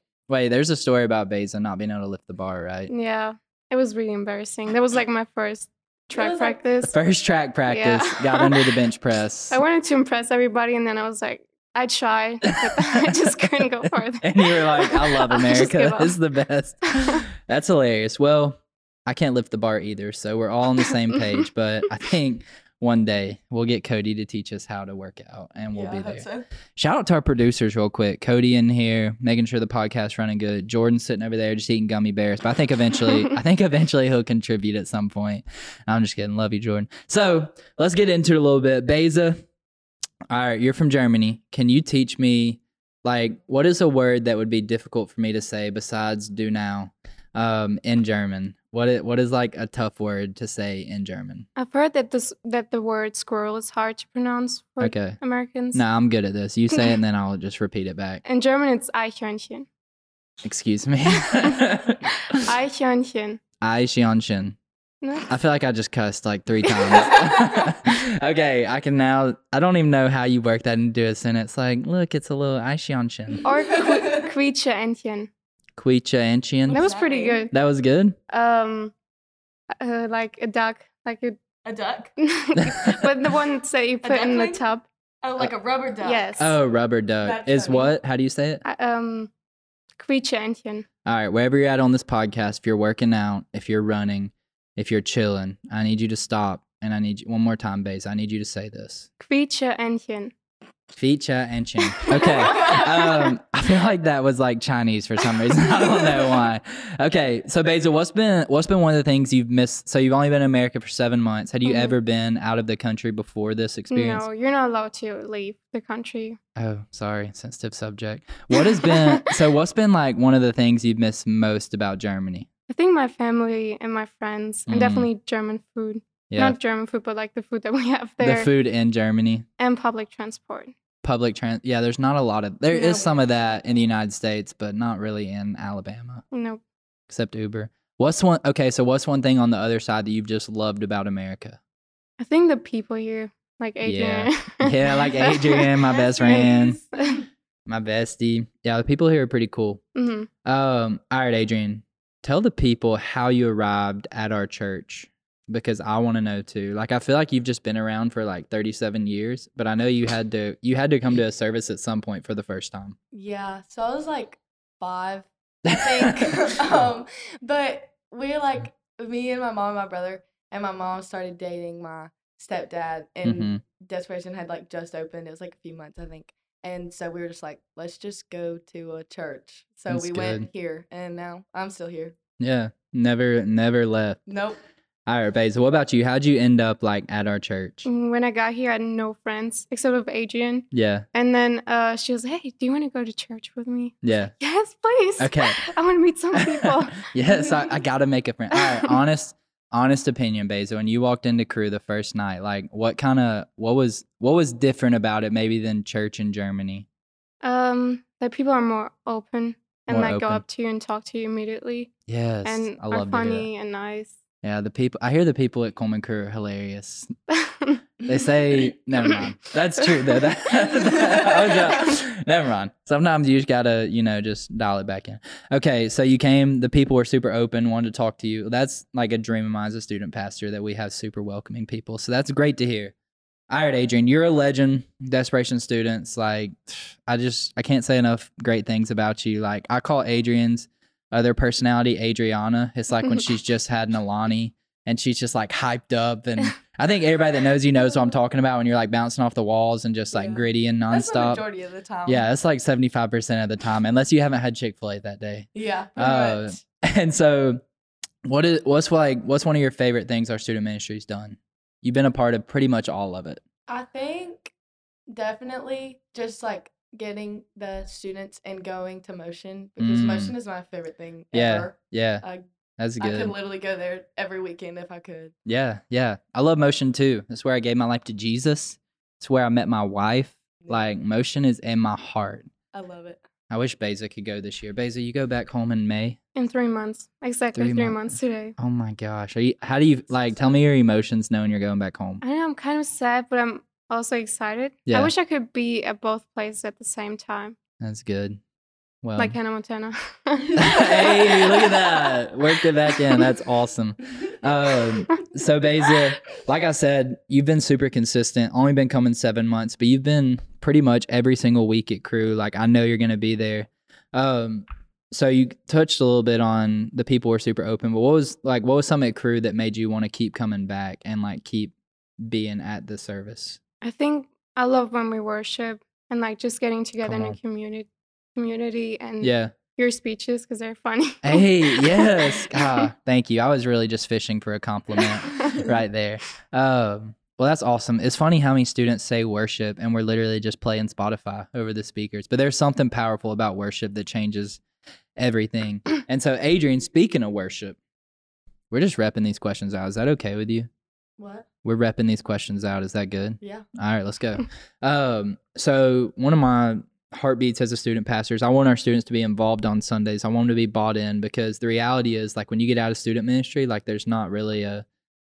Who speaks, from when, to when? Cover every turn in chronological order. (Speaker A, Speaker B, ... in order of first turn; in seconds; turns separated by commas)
Speaker A: 0.3-2.9, Speaker B: 2.9-6.9, Speaker C: 6.1-6.7, Speaker A: 6.9-9.6, Speaker B: 7.7-8.9, Speaker B: 9.5-16.2, Speaker A: 12.5-39.4, Speaker B: 16.9-17.2, Speaker C: 25.7-26.5, Speaker A: 40.3-51.5, Speaker B: 51.5-55.8, Speaker A: 54.8-55.2, Speaker A: 55.7-58.2, Speaker B: 56.7-57.0, Speaker B: 58.2-59.7, Speaker A: 60.4-62.0, Speaker B: 62.3-63.4, Speaker A: 63.6-64.6, Speaker B: 65.0-65.3, Speaker A: 65.3-73.4, Speaker B: 73.4-75.3, Speaker C: 73.5-74.3, Speaker A: 75.8-76.9, Speaker C: 76.7-77.5, Speaker B: 76.7-77.5, Speaker A: 77.5-78.2, Speaker B: 78.3-78.9, Speaker B: 79.8-81.4, Speaker C: 81.6-82.1, Speaker B: 82.2-84.9, Speaker A: 82.6-83.0, Speaker C: 84.0-84.6, Speaker C: 85.2-86.3, Speaker B: 86.0-86.6, Speaker A: 86.4-88.6, Speaker C: 87.2-87.9, Speaker B: 88.6-89.3, Speaker B: 90.0-90.9, Speaker A: 91.0-99.1, Speaker B: 99.2-100.3, Speaker A: 101.0-114.2, Speaker B: 102.0-102.6, Speaker B: 111.6-112.0, Speaker B: 113.9-116.4, Speaker A: 116.5-122.5, Speaker B: 118.5-119.3, Speaker B: 122.7-128.5, Speaker A: 124.7-125.1, Speaker A: 126.3-126.6, Speaker A: 128.2-129.5, Speaker B: 129.6-130.7, Speaker A: 131.0-136.2, Speaker C: 132.7-133.2, Speaker B: 136.3-136.6, Speaker A: 137.1-141.6, Speaker B: 142.2-145.8, Speaker A: 143.8-146.8, Speaker C: 145.9-147.1, Speaker B: 146.3-147.2, Speaker A: 147.7-149.8, Speaker B: 149.9-150.3, Speaker A: 150.4-163.0, Speaker C: 163.1-182.1, Speaker A: 166.0-166.3, Speaker A: 173.2-173.6, Speaker A: 179.9-180.5, Speaker A: 182.4-184.2, Speaker C: 184.3-184.6, Speaker A: 185.1-187.9, Speaker B: 187.9-197.1, Speaker A: 190.7-191.1, Speaker A: 194.0-194.3, Speaker A: 195.2-195.6, Speaker A: 196.3-206.9, Speaker B: 198.5-198.9, Speaker B: 207.4-211.9, Speaker A: 209.9-210.4, Speaker A: 212.1-213.5, Speaker B: 212.4-214.1, Speaker A: 214.4-217.1, Speaker B: 217.3-217.8, Speaker A: 218.0-232.9, Speaker B: 218.9-219.2, Speaker A: 233.5-251.4, Speaker C: 250.1-252.3, Speaker A: 252.1-257.6, Speaker C: 255.5-256.6, Speaker A: 258.2-263.4, Speaker C: 263.7-264.5, Speaker C: 265.1-272.4, Speaker A: 269.8-270.4, Speaker A: 271.3-272.2, Speaker A: 272.8-273.4, Speaker C: 273.0-275.3, Speaker A: 275.5-282.5, Speaker C: 282.7-283.2, Speaker A: 283.5-286.2, Speaker B: 286.4-288.5, Speaker A: 287.5-292.2, Speaker B: 292.2-297.6, Speaker A: 294.9-295.1, Speaker A: 297.8-298.4, Speaker A: 299.0-299.4, Speaker B: 299.2-301.6, Speaker A: 300.6-323.6, Speaker B: 323.8-332.9, Speaker A: 327.0-327.4, Speaker A: 329.2-329.6, Speaker A: 331.2-344.6, Speaker A: 345.2-347.8, Speaker A: 348.7-350.7, Speaker C: 351.2-351.5, Speaker A: 351.6-364.9, Speaker C: 353.4-353.6